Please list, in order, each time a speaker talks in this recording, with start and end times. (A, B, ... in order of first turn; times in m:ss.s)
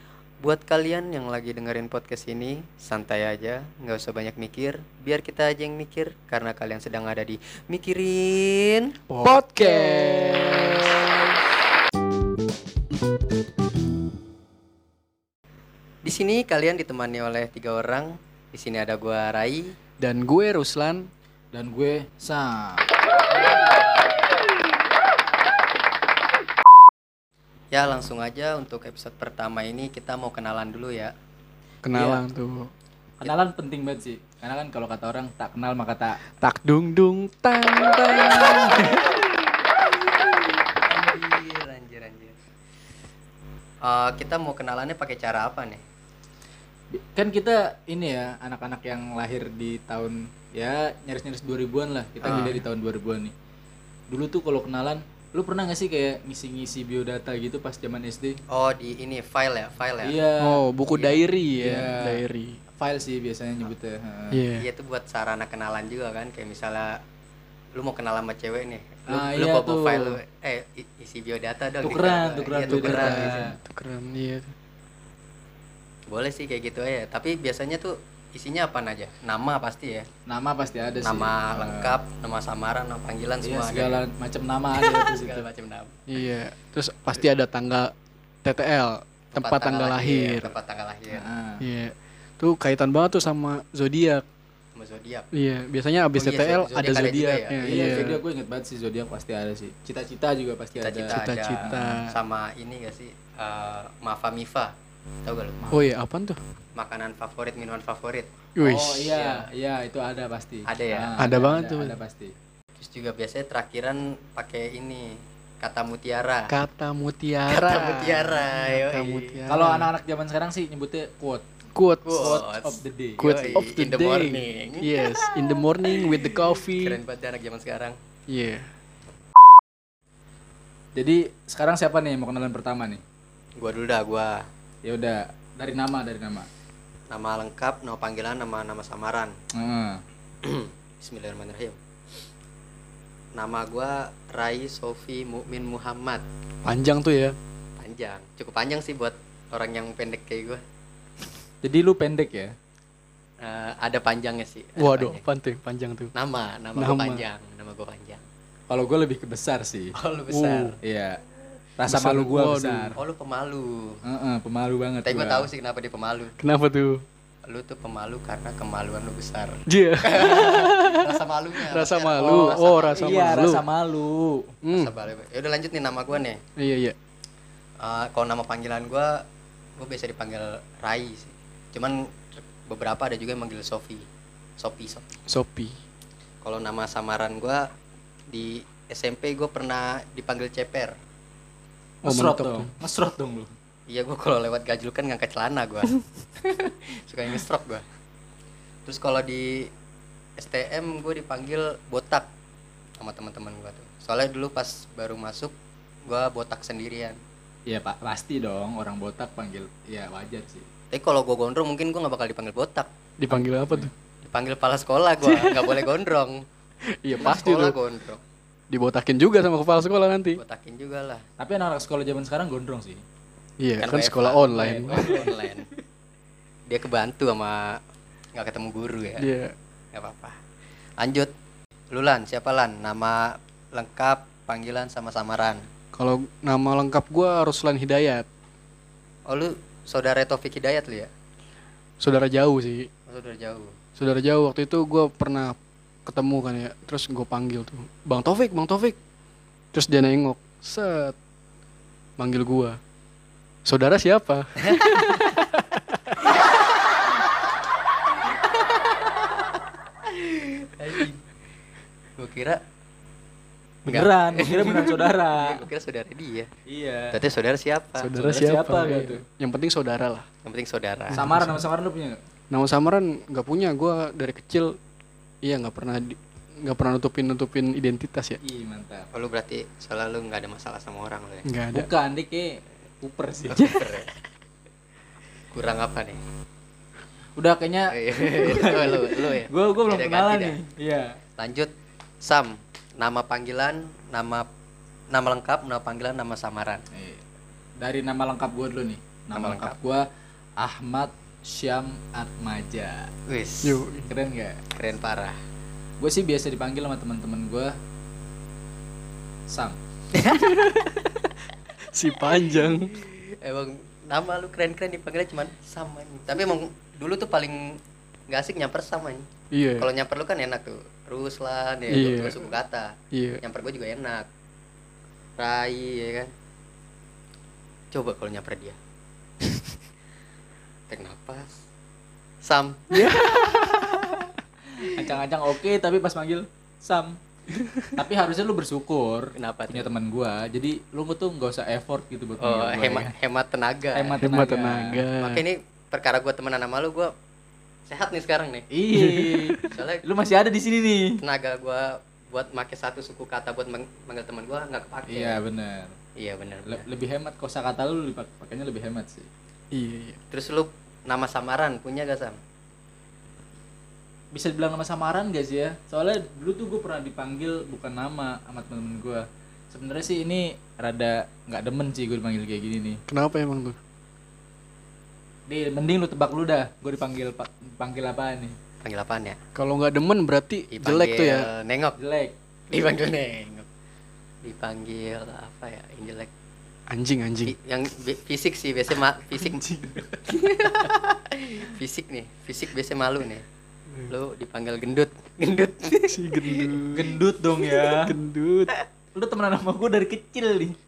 0:00.4-0:09.0 A
0:09.1-0:11.0 B
0:09.2-0:10.8 C
0:16.0-0:19.8 A
0:20.0-0:21.1 B
0:21.5-0:22.8 C
0:27.7-0:31.1 A
0:31.8-0:32.7 B
0:31.9-0:32.2 C
0:33.2-0:36.3 C
0:36.4-0:39.2 B
0:40.8-0:42.4 A
0:43.8-0:45.8 A
0:46.9-0:53.3 C
0:52.2-0:52.5 A
0:52.2-0:52.6 B
0:54.1-0:58.4 C
0:58.5-1:00.2 A
1:00.0-1:00.6 C
1:00.4-1:02.6 B
1:00.9-1:01.2 A
1:01.6-1:02.2 C
1:02.8-1:04.4 C
1:04.3-1:04.6 B
1:04.6-1:07.0 A
1:07.8-1:13.5 A
1:09.1-1:10.2 C
1:11.8-1:13.6 C
1:12.6-1:14.5 B
1:16.1-1:20.1 A
1:20.3-1:22.0 C
1:21.0-1:24.0 A
1:23.4-1:25.5 C
1:24.8-1:26.0 A
1:26.1-1:27.9 B
1:28.4-1:30.5 B
1:29.3-1:31.3 A
1:31.1-1:31.6 C
1:31.6-1:34.2 B
1:34.8-1:35.3 A
1:35.3-1:38.2 B
1:36.2-1:38.2 A
1:37.6-1:42.0 C
1:40.7-1:44.7 A
1:41.1-1:42.1 B
1:45.2-1:45.6 A
1:45.6-1:45.9 C
1:45.7-1:46.4 B
1:46.8-1:48.3 A
1:48.6-1:49.2 B
1:48.6-1:52.3 C
1:49.2-1:49.5 A
1:50.7-1:51.2 A
1:51.2-1:52.0 B
1:52.8-1:56.6 A
1:56.5-1:59.9 B
1:57.5-1:59.4 A
1:59.5-2:01.4 C
2:01.8-2:02.4 B
2:02.0-2:08.0 A
2:02.1-2:03.3 C
2:03.2-2:07.0 B
2:08.3-2:08.7 B
2:11.0-2:13.0 C
2:13.6-2:14.4 A
2:14.8-2:16.5 C
2:17.1-2:19.3 A
2:19.6-2:20.0 C
2:20.4-2:21.8 A
2:23.4-2:26.2 A
2:26.6-2:27.4 B
2:27.8-2:30.6 A
2:31.6-2:32.5 C
2:33.4-2:35.2 A
2:34.8-2:36.1 B
2:36.2-2:38.2 A
2:36.8-2:37.2 B
2:38.7-2:39.9 C
2:40.0-2:40.8 A
2:40.3-2:40.8 B
2:40.8-2:41.2 C
2:41.8-2:43.0 C
2:41.9-2:43.0 B
2:43.0-2:44.0 A
2:44.0-2:45.5 C
2:45.0-2:46.4 A
2:46.4-2:47.0 B
2:47.5-2:53.5 A
2:49.7-2:51.2 B
2:51.7-2:53.6 B
2:52.2-2:54.5 C
2:54.6-2:54.9 B
2:54.7-2:56.4 A
2:56.6-2:57.0 B
2:57.8-2:59.2 A
2:59.8-3:04.1 A
3:04.6-3:05.0 A
3:05.3-3:05.8 B
3:06.4-3:07.7 A
3:08.3-3:10.9 A
3:12.0-3:13.5 C
3:12.0-3:12.7 B
3:13.9-3:17.8 A
3:18.9-3:19.7 A
3:20.4-3:22.3 A
3:23.0-3:25.5 A
3:26.1-3:27.2 A
3:27.7-3:30.6 C
3:30.9-3:32.9 A
3:33.2-3:33.9 B
3:33.3-3:33.9 C
3:34.3-3:36.4 A
3:35.2-3:35.9 B
3:37.0-3:37.8 B
3:37.2-3:38.2 A
3:38.7-3:40.4 B
3:40.4-3:41.2 A
3:41.4-3:43.0 C
3:43.6-3:45.5 B
3:43.8-3:45.7 A
3:44.6-3:45.3 C
3:46.7-3:47.8 A
3:48.4-3:49.3 A
3:49.2-3:49.5 B
3:49.9-3:50.4 A
3:51.0-3:51.3 A
3:51.9-3:55.6 A
3:56.0-3:58.3 B
3:59.3-4:01.1 A
4:02.0-4:02.9 B
4:03.1-4:03.8 A
4:04.0-4:09.0 B
4:09.7-4:11.2 B
4:12.2-4:12.8 B
4:13.6-4:16.1 B
4:14.6-4:15.1 A
4:16.3-4:16.6 A
4:18.4-4:19.2 A
4:20.1-4:21.2 A
4:22.2-4:22.6 A
4:23.9-4:25.6 C
4:23.9-4:26.5 A
4:26.7-4:27.2 C
4:27.1-4:28.1 A
4:28.0-4:30.3 B
4:28.1-4:29.2 C
4:30.4-4:31.2 A
4:31.1-4:31.6 B
4:31.2-4:32.2 C
4:32.5-4:34.8 B
4:35.4-4:38.4 B
4:38.4-4:39.1 C
4:39.1-4:41.5 A
4:41.4-4:41.9 B
4:41.7-4:43.7 C
4:43.5-4:44.1 A
4:43.5-4:43.9 B
4:45.5-4:46.2 A
4:47.4-4:51.2 C
4:47.9-4:50.6 A
4:51.4-4:51.7 A
4:52.2-4:54.5 A
4:55.1-4:56.8 A
4:56.9-4:57.2 C
4:57.8-5:00.1 C
4:59.3-4:59.8 A
5:00.6-5:03.1 C
5:03.3-5:03.8 A
5:03.6-5:04.1 B
5:04.1-5:04.6 C
5:04.7-5:05.4 A
5:06.0-5:07.8 C
5:09.5-5:10.6 C
5:10.3-5:10.7 B
5:11.9-5:13.0 B
5:12.3-5:19.3 A
5:19.5-5:19.9 B
5:19.8-5:24.2 A
5:21.9-5:22.4 B
5:23.1-5:23.4 B
5:25.4-5:26.3 A
5:27.9-5:28.8 A
5:30.9-5:31.6 A
5:32.4-5:33.0 A
5:32.9-5:34.1 B
5:34.8-5:37.2 C
5:37.5-5:38.0 B
5:38.0-5:43.1 C
5:39.4-5:39.9 A
5:42.4-5:44.2 A
5:43.9-5:45.0 C
5:44.2-5:45.4 B
5:45.1-5:47.1 A
5:47.9-5:48.7 A
5:48.7-5:51.2 C
5:48.9-5:49.8 B
5:49.7-5:50.0 A
5:51.2-5:55.4 A
5:55.1-5:56.0 C
5:56.2-5:56.9 A
5:56.7-5:59.3 C
5:59.7-6:00.2 B
6:00.3-6:02.4 A
6:04.3-6:13.0 C
6:13.1-6:13.8 B
6:15.5-6:18.6 C
6:18.8-6:19.4 A
6:19.6-6:21.5 B
6:20.7-6:22.0 A
6:22.0-6:22.3 C
6:22.7-6:23.7 A
6:24.4-6:26.3 A
6:26.9-6:27.5 B
6:27.4-6:29.7 A
6:29.6-6:30.1 C
6:30.2-6:33.4 A
6:34.1-6:36.9 A
6:36.1-6:37.2 B
6:36.9-6:38.2 C
6:37.9-6:38.7 B
6:39.2-6:40.8 C